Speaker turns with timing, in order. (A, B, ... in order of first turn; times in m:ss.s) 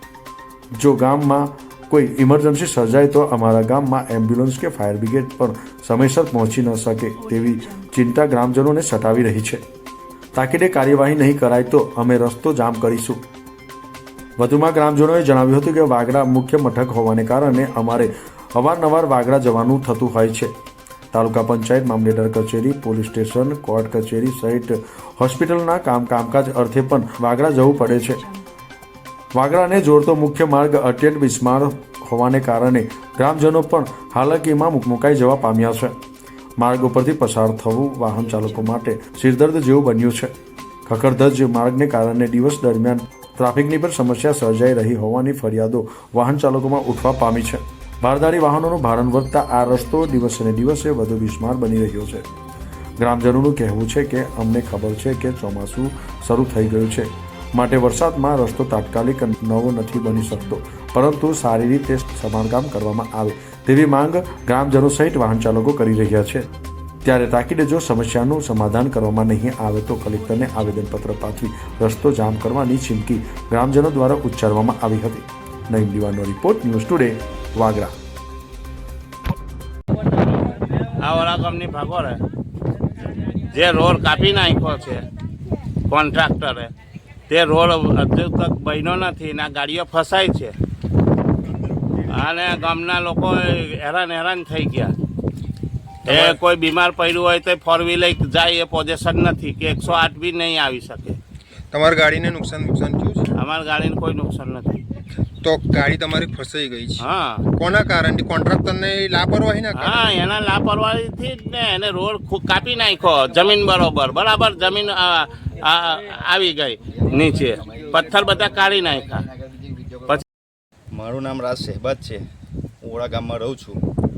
0:00.8-0:09.6 A
0:10.3-0:13.2 A
0:14.4-0:20.5 A
0:21.1-0:28.3 A
0:29.3-0:36.0 A
0:36.6-0:40.3 A
0:40.9-0:52.3 A
0:53.0-1:06.5 A
1:07.0-1:17.9 A
1:21.0-1:22.2 B
1:23.5-1:25.1 B
1:25.9-1:26.7 B
1:27.3-1:30.5 B
1:32.0-1:34.9 B
1:36.0-1:41.2 B
1:36.0-1:36.4 C
1:41.7-1:43.3 C
1:43.4-1:44.8 B
1:45.4-1:47.0 C
1:47.0-1:47.4 B
1:47.6-1:50.1 C
1:49.7-1:59.3 B
1:57.4-2:00.2 D
2:00.9-2:02.2 D
2:02.8-2:03.8 D